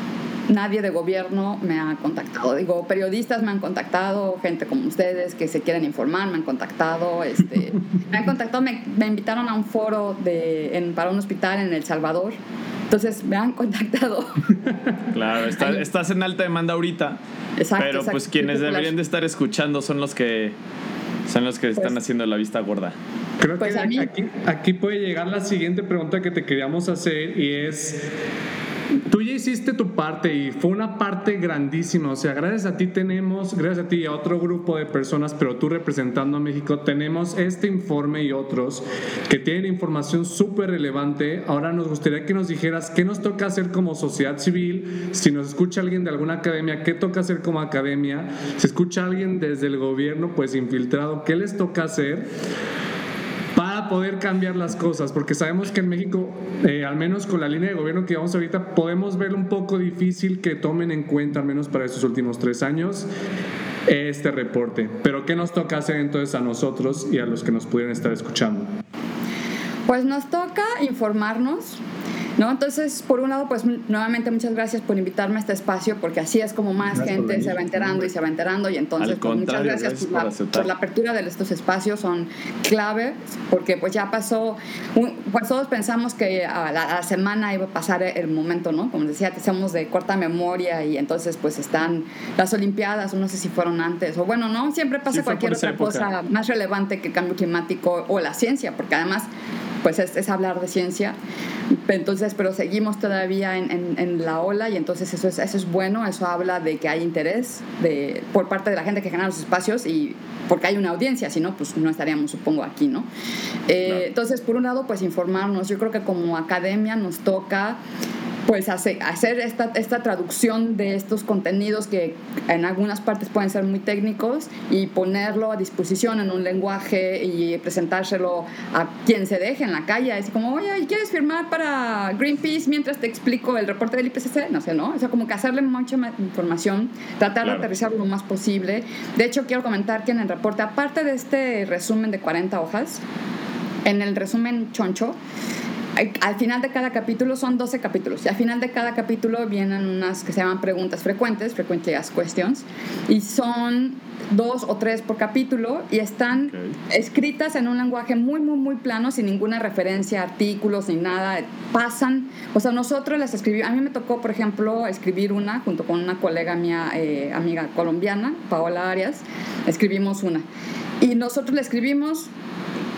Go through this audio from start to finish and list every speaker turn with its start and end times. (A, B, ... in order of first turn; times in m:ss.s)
0:00.5-0:12.4 A
0:12.9-0:14.5 A
0:15.1-0:17.2 B
0:15.6-0:15.8 A
0:17.6-0:18.9 A
0:17.8-0:20.5 B
0:21.3-0:23.0 B
0:23.4-0:28.1 C
0:23.6-0:24.1 A
0:29.0-0:52.3 C
0:53.5-1:03.1 C
1:03.8-1:08.7 C
1:09.9-1:11.8 A
1:12.4-1:39.3 A
1:16.9-1:18.0 C
1:19.0-1:20.7 B
1:35.1-1:36.1 B
1:39.8-1:41.2 A
1:41.9-1:53.1 A
1:53.7-1:57.8 A
1:58.5-2:23.0 A
2:23.8-2:25.2 A
2:26.0-2:50.4 A
2:51.0-2:52.3 A